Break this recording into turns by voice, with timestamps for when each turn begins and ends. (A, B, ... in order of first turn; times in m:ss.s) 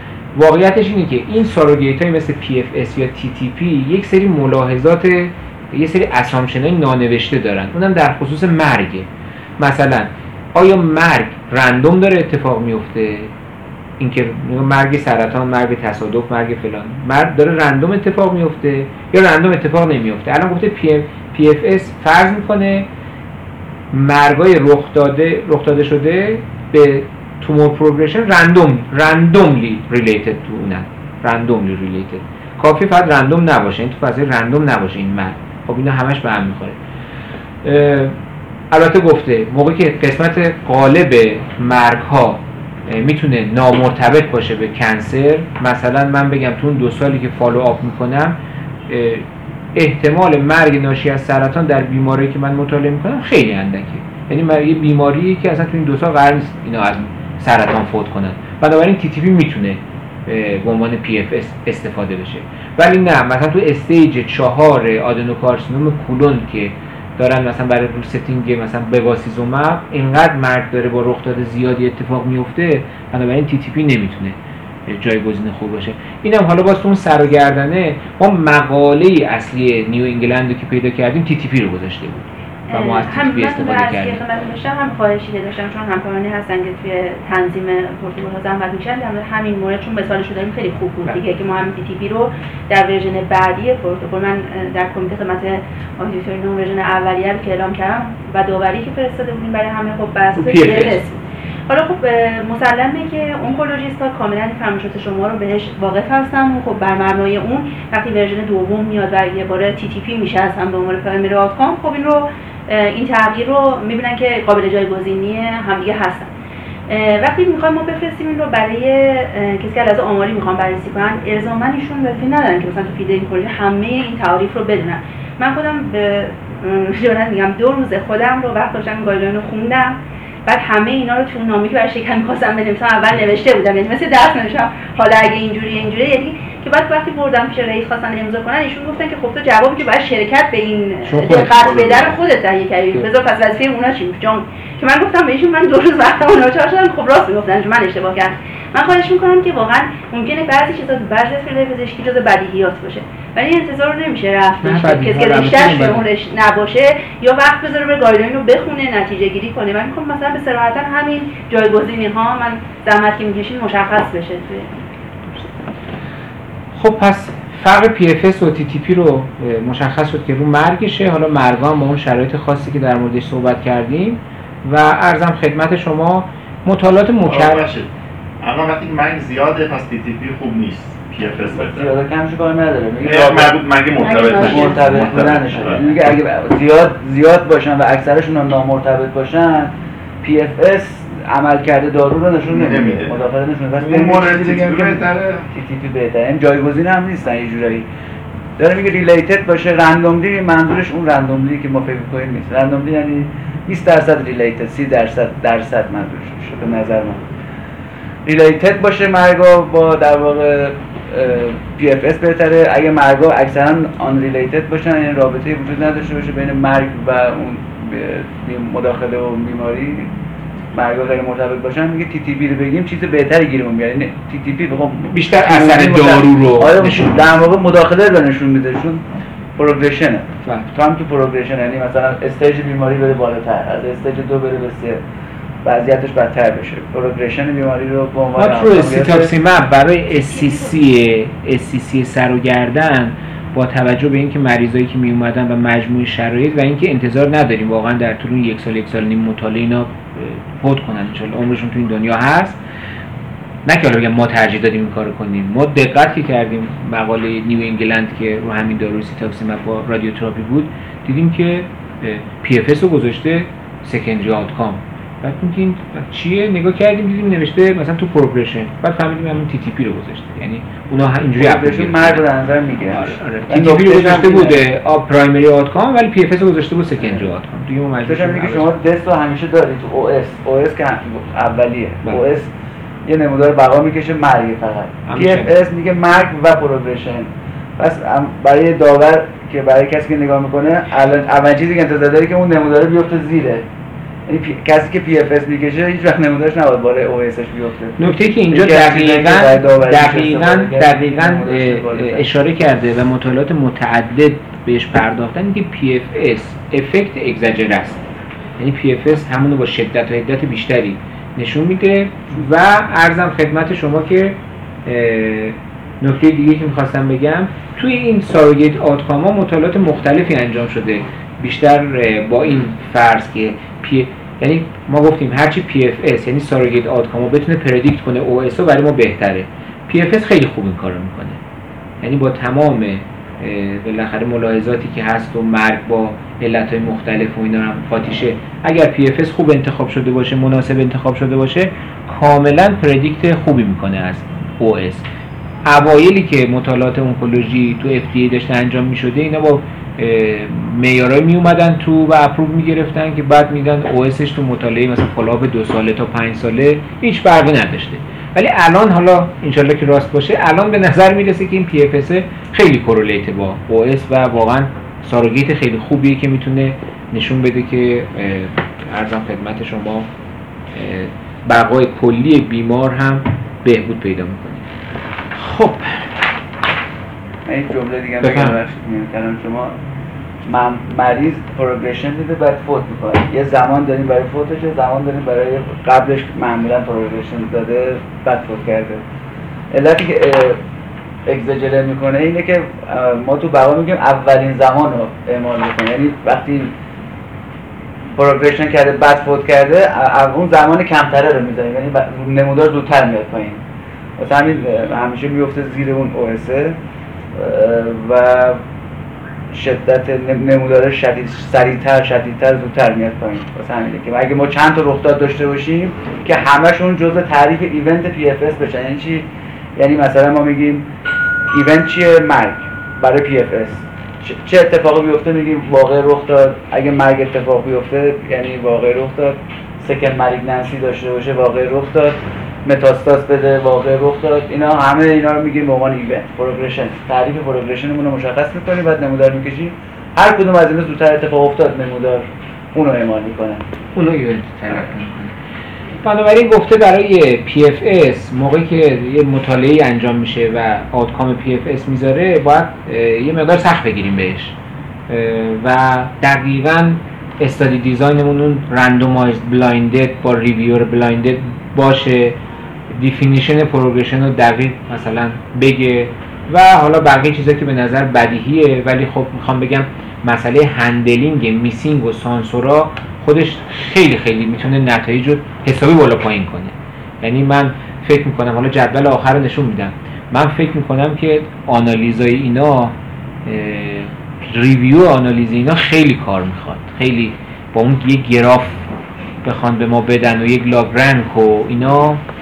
0:00.3-0:09.1 A
0:09.6-0:13.3 A
0:14.0-0:22.9 A
0:23.9-0:36.8 A
0:37.6-0:38.2 A
0:38.7-0:48.4 A
0:48.9-1:24.2 A
1:22.7-1:56.3 B
1:40.4-1:41.0 A
1:56.9-2:44.7 B
2:21.0-2:21.9 A
2:21.6-2:22.2 C
2:34.6-2:36.1 A
2:46.7-2:57.7 A
2:57.2-2:57.9 C
2:58.4-3:01.9 C
3:01.4-3:03.6 D
3:03.0-3:06.2 C
3:04.0-3:05.1 B
3:04.4-3:17.9 D
3:12.5-3:13.2 C
3:13.8-3:15.5 C
3:18.6-3:27.2 D
3:28.3-3:40.1 D
3:40.7-3:49.0 D
3:45.1-3:47.3 A
3:49.6-3:55.0 D
3:55.6-3:59.3 D
3:58.4-4:12.6 A
4:13.6-4:32.3 A
4:31.4-4:34.6 D
4:32.9-4:38.7 A
4:38.0-4:42.5 D
4:43.1-4:53.7 D
4:45.1-4:45.5 A
4:54.3-5:02.2 D
4:58.0-5:08.1 A
5:08.6-5:31.4 A
5:32.0-5:45.1 A
5:45.7-6:10.1 A
6:10.7-6:14.7 A
6:15.4-6:16.1 A
6:17.5-6:19.8 D
6:18.2-6:18.6 A
6:20.4-6:29.0 D
6:29.7-6:30.6 D
6:31.3-6:36.7 D
6:38.2-6:43.6 D
6:44.2-6:46.8 D
6:47.3-6:48.6 D
6:49.5-6:59.3 D
6:59.8-7:00.9 D
7:01.5-7:23.6 D
7:24.0-7:25.3 A
7:26.0-7:34.6 A
7:35.1-7:42.4 A
7:42.9-8:08.9 A
8:09.4-8:12.2 A